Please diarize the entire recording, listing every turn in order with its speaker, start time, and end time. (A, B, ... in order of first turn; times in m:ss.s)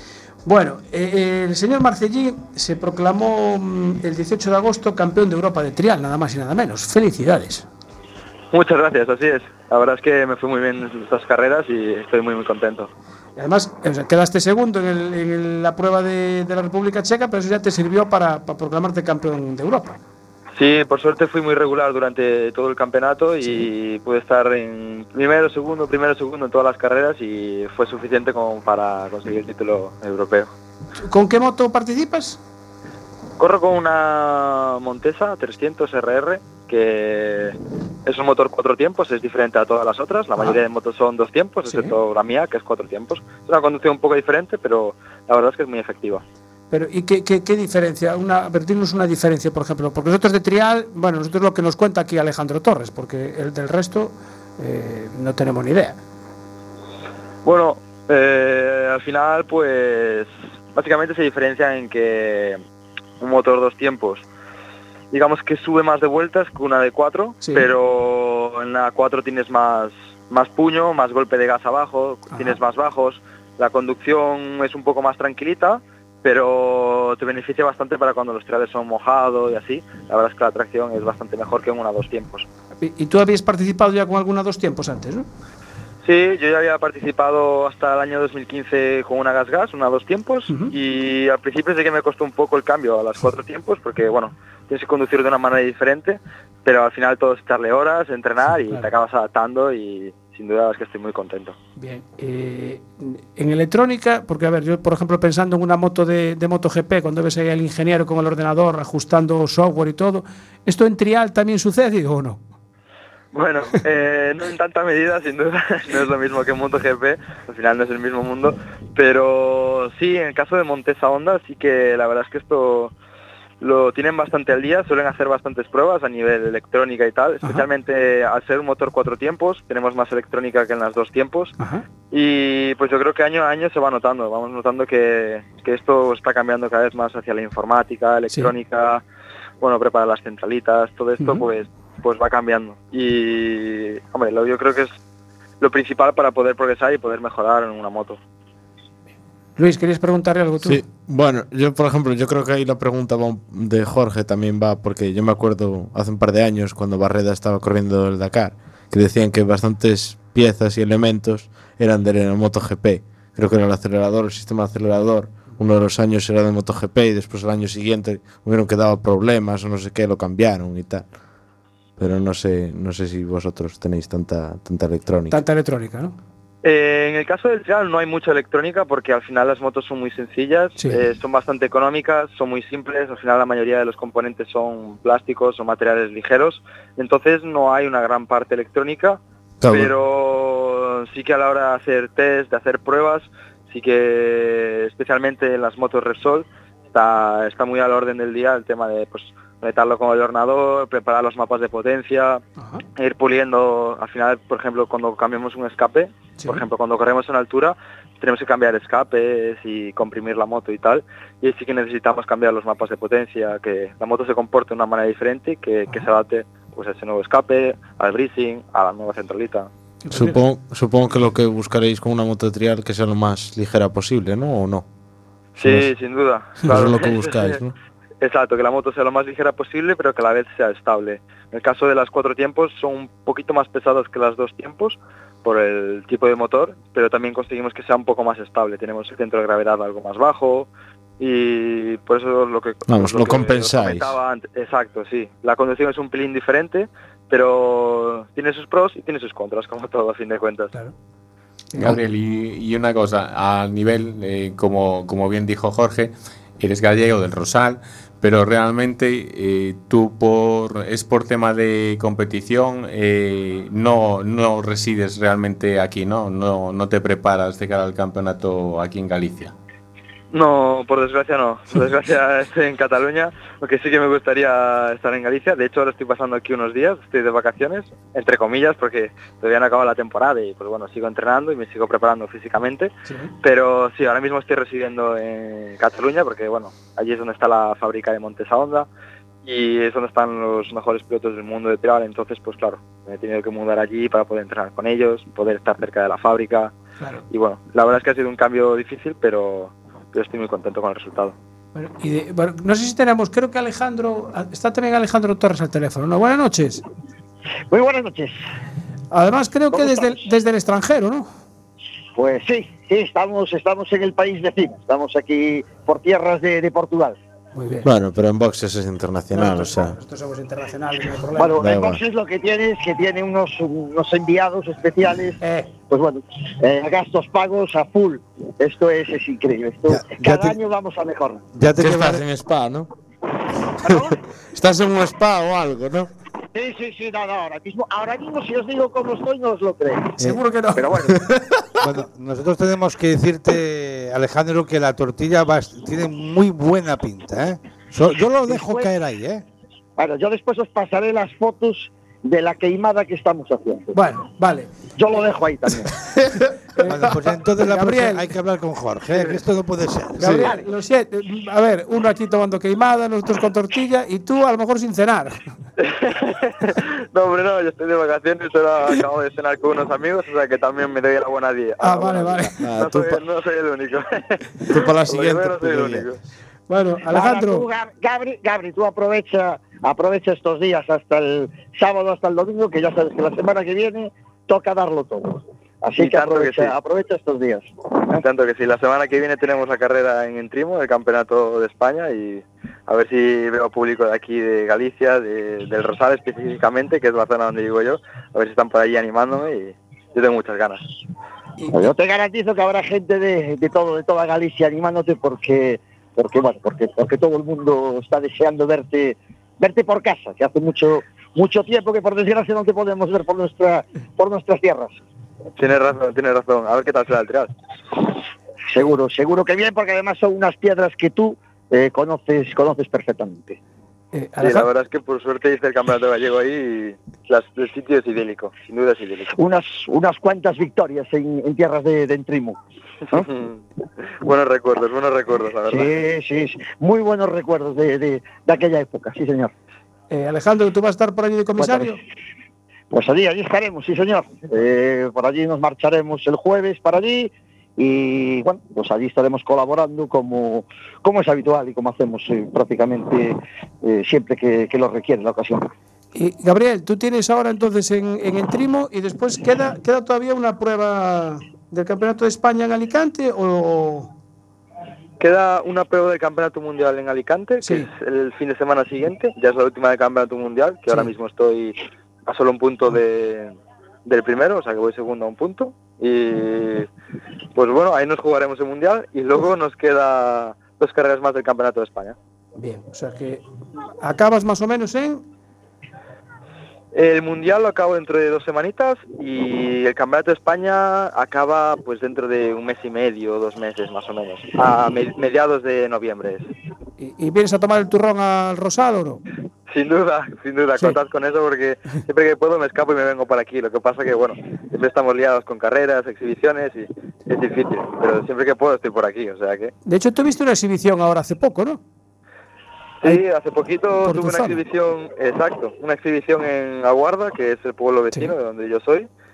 0:00.4-0:07.6 A
0:08.5-0:12.9 B
0:13.4-0:20.0 A
0:20.6-0:30.5 B
0:31.0-0:32.4 A
0:33.4-0:46.2 B
0:41.7-0:42.0 A
0:46.7-0:56.0 A
0:57.4-1:02.6 B
1:03.2-1:04.2 B
1:05.1-1:22.5 B
1:07.4-1:07.7 A
1:12.3-1:12.6 A
1:22.8-1:25.2 A
1:26.0-1:41.5 B
1:30.5-1:30.7 A
1:41.8-1:52.4 A
1:53.3-2:02.9 B
2:03.6-2:11.5 B
2:11.6-2:11.8 A
2:12.1-2:19.0 B
2:19.6-2:24.9 B
2:21.2-2:21.4 A
2:25.6-2:28.2 B
2:29.6-2:30.8 A
2:30.6-2:51.0 C
2:52.0-2:55.4 C
2:55.3-2:56.1 A
2:56.6-3:22.4 B
3:09.6-3:09.9 C
3:23.0-3:39.7 B
3:26.4-3:26.6 A
3:40.0-3:40.4 A
3:40.1-3:44.8 C
3:45.6-3:47.6 B
3:45.6-3:45.9 C
3:46.6-3:47.7 C
3:48.2-4:10.7 B
4:02.9-4:04.1 C
4:11.8-4:29.5 D
4:30.3-4:42.9 B
4:43.1-4:43.3 A
4:43.4-4:48.9 B
4:49.4-4:56.7 B
4:57.3-5:01.3 B
5:01.7-5:06.8 A
5:07.7-5:08.3 E
5:09.1-5:11.3 A
5:09.7-5:10.2 E
5:12.1-5:17.2 E
5:17.5-5:17.9 A
5:17.8-5:20.0 C
5:19.3-5:21.6 A
5:21.4-5:25.4 E
5:21.6-5:22.0 C
5:25.4-5:25.7 A
5:25.9-5:31.4 E
5:29.9-5:30.6 F
5:31.6-5:32.2 F
5:31.8-5:32.9 C
5:33.8-5:34.2 E
5:33.8-5:36.1 C
5:36.5-5:40.2 E
5:40.2-5:40.9 A
5:40.8-5:41.2 E
5:41.0-5:41.4 C
5:41.8-5:49.4 F
5:48.5-5:48.9 E
5:50.0-5:53.9 E
5:53.9-5:54.7 A
5:55.0-5:55.9 E
5:56.8-5:58.3 A
5:56.8-6:00.3 F
6:00.2-6:05.4 A
6:00.2-6:00.5 C
6:05.8-6:16.2 B
6:11.8-6:12.5 A
6:12.6-6:13.2 C
6:14.7-6:16.1 C
6:16.7-6:17.6 A
6:17.1-6:28.2 E
6:26.0-6:26.7 B
6:28.2-6:40.8 B
6:41.6-6:41.9 A
6:41.7-6:55.0 E
6:55.6-6:57.5 B
6:58.7-7:03.6 E
7:04.1-7:04.7 A
7:04.4-7:09.4 B
7:09.4-7:12.6 E
7:13.1-7:13.6 B
7:14.2-7:15.9 B
7:15.7-7:19.5 E
7:20.1-7:22.0 A
7:21.6-7:22.0 E
7:22.9-7:35.7 E
7:36.1-7:44.1 A
7:45.2-7:53.5 B
7:47.6-7:47.9 A
7:50.9-7:51.1 A
7:54.0-7:56.9 B
7:57.6-8:02.2 B
8:02.6-8:03.4 A
8:04.0-8:05.2 A
8:06.9-8:16.5 B
8:17.0-8:19.2 A
8:19.7-8:29.7 B
8:29.8-8:31.8 A
8:33.0-8:39.1 B
8:34.0-8:34.6 A